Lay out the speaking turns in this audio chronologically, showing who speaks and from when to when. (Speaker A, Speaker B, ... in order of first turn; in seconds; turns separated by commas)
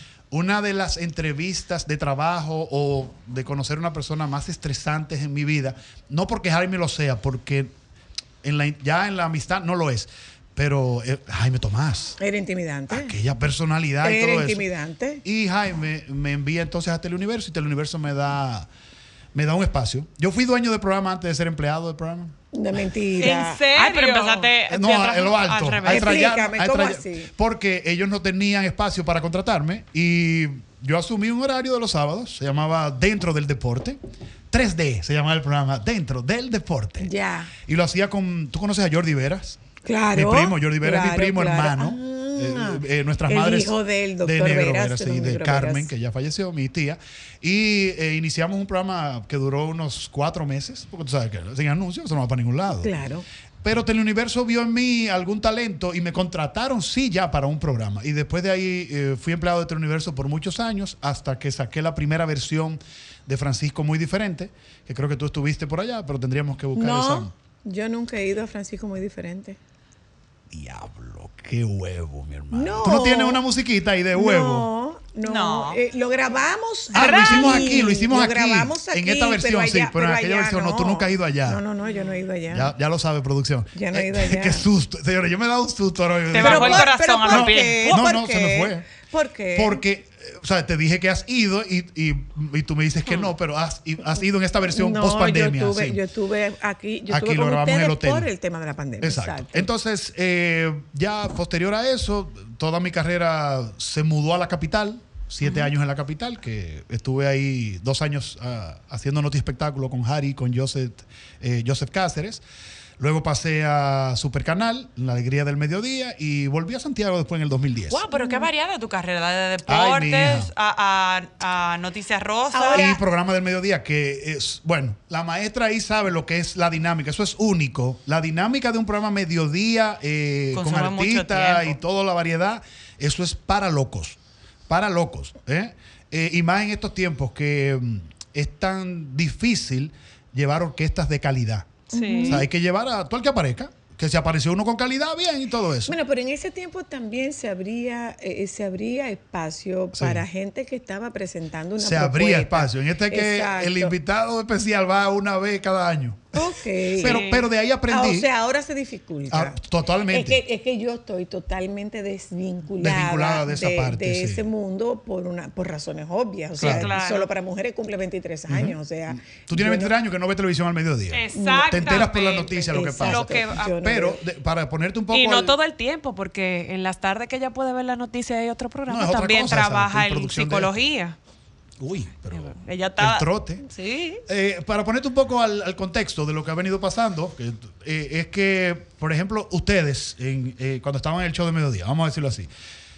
Speaker A: 0.3-7.7, Speaker A: 8.4-12.2, Speaker B: 12.2-13.2, Speaker A: 12.9-14.6, Speaker B: 14.0-15.2, Speaker A: 15.2-18.7, Speaker A: 19.3-22.3, Speaker B: 22.5-23.6, Speaker C: 23.2-24.5, Speaker D: 23.7-26.2, Speaker A: 24.7-34.0, Speaker B: 25.8-27.3, Speaker A: 34.5-37.1, Speaker B: 37.0-37.5, Speaker A: 37.6-39.6, Speaker B: 39.9-45.9, Speaker A: 40.1-52.9, Speaker B: 52.8-53.3, Speaker A: 53.6-67.3, Speaker B: 66.8-69.6, Speaker A: 70.5-74.7, Speaker B: 72.5-73.4, Speaker B: 74.1-82.7, Speaker D: 75.2-75.8, Speaker A: 76.9-81.6, Speaker D: 77.0-77.7, Speaker A: 82.5-88.9, Speaker B: 83.8-84.7, Speaker D: 86.3-88.0, Speaker B: 86.3-89.8, Speaker A: 89.5-96.0, Speaker B: 94.7-99.7, Speaker A: 97.1-98.3, Speaker A: 99.0-112.4, Speaker A: 113.0-118.0, Speaker D: 117.9-122.9, Speaker B: 118.1-118.5, Speaker A: 119.7-120.5, Speaker B: 122.5-123.0, Speaker A: 122.7-134.2, Speaker D: 130.5-131.8, Speaker A: 134.7-145.9, Speaker B: 141.9-142.5, Speaker C: 141.9-142.5, Speaker B: 145.9-153.9, Speaker A: 149.9-150.2, Speaker A: 151.8-156.4, Speaker B: 156.3-157.2, Speaker A: 157.0-158.3, Speaker C: 157.1-157.4, Speaker B: 157.9-159.6, Speaker A: 159.3-160.4, Speaker B: 160.1-169.9, Speaker A: 162.8-164.4, Speaker A: 166.6-166.9, Speaker C: 166.7-167.2, Speaker A: 168.5-175.6, Speaker C: 171.1-173.7, Speaker B: 171.3-172.1, Speaker B: 172.7-174.2, Speaker C: 175.1-181.2, Speaker A: 178.9-180.8, Speaker A: 181.8-183.6, Speaker D: 182.3-183.3, Speaker C: 183.7-184.2, Speaker A: 184.3-192.5